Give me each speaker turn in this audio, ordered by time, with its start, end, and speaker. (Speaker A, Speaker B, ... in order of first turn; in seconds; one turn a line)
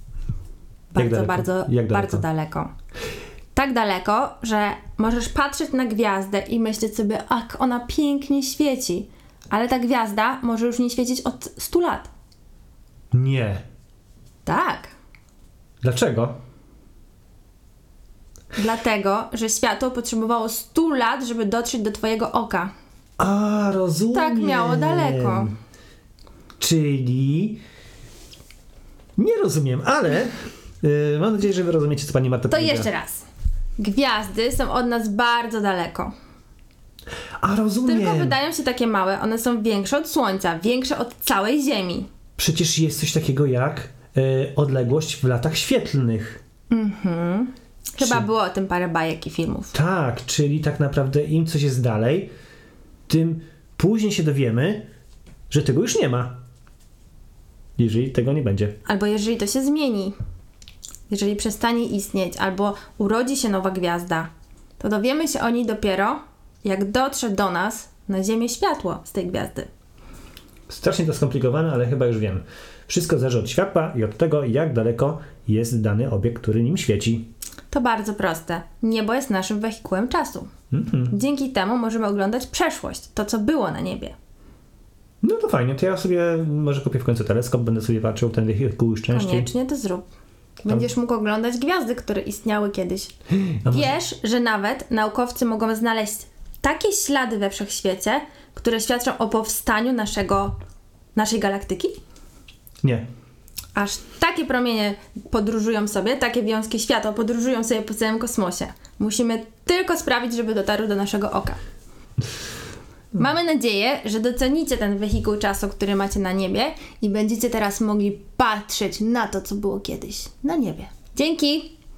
Speaker A: 0.9-2.7
Speaker B: 1.0-2.2
Speaker A: 3.5-12.1
Speaker B: 13.1-13.6
Speaker A: 14.5-14.9
Speaker B: 15.8-16.4
Speaker A: 18.5-22.7
Speaker B: 23.2-25.5
Speaker A: 24.1-25.5
Speaker B: 26.6-27.6
Speaker B: 29.2-32.9
Speaker A: 32.5-33.3
Speaker A: 33.8-36.1
Speaker B: 37.4-38.4
Speaker A: 37.9-42.1
Speaker B: 42.4-46.4
Speaker A: 46.7-49.7
Speaker B: 48.0-48.3
Speaker B: 49.7-52.3
Speaker B: 53.1-54.9
Speaker B: 55.5-56.4
Speaker B: 57.8-58.8
Speaker A: 58.9-60.1
Speaker A: 61.1-69.7
Speaker B: 70.7-77.3
Speaker A: 77.7-80.5
Speaker B: 80.7-81.2
Speaker A: 81.1-84.2
Speaker B: 85.2-89.5
Speaker A: 89.1-90.1
Speaker A: 90.6-93.1
Speaker B: 93.4-94.0
Speaker A: 93.7-100.5
Speaker A: 101.2-102.0
Speaker A: 103.8-111.6
Speaker A: 113.1-121.8